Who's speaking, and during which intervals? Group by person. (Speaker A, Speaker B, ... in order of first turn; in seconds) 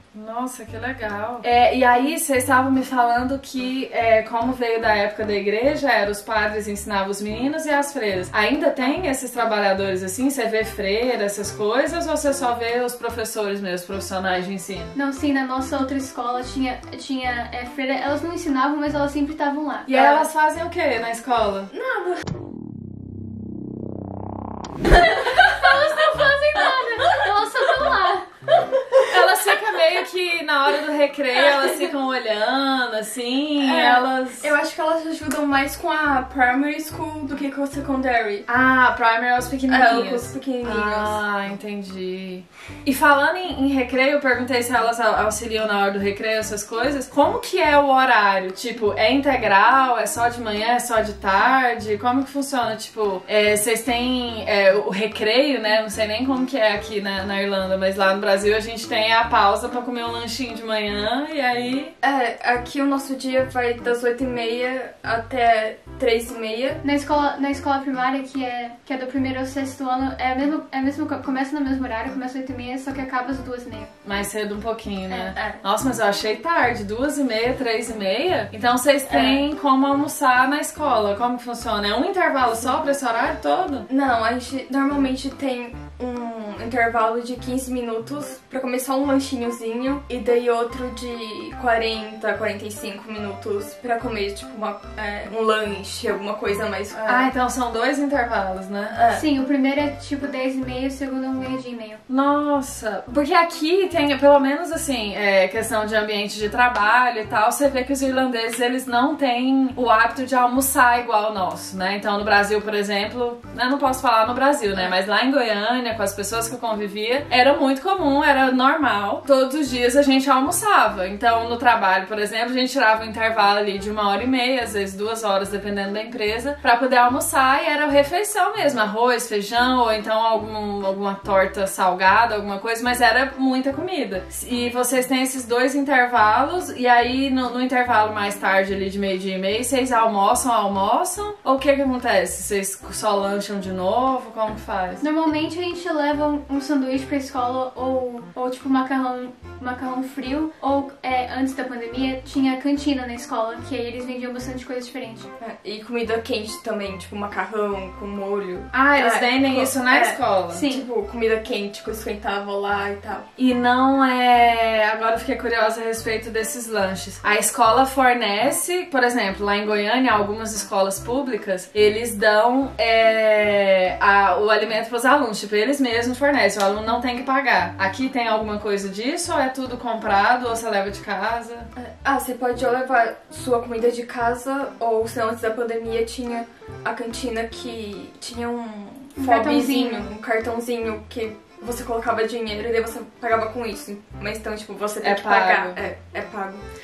Speaker A: 0.1-14.9, 19.9-21.7, 29.0-34.5, 38.5-61.9, 74.0-83.9, 97.0-99.0, 102.1-145.0, 158.7-160.6, 163.4-181.7, 195.0-195.8
Speaker B: 14.9-20.1, 25.2-28.3, 66.8-73.9, 75.1-75.3, 99.1-102.0, 145.0-155.3, 160.5-160.9, 189.2-190.1
Speaker C: 21.7-22.2, 25.1-25.7, 28.6-29.1, 33.6-38.5, 39.7-41.2, 62.0-66.8, 75.4-75.6, 79.1-79.5, 83.9-97.3, 98.9-99.2, 155.4-163.3, 181.8-196.6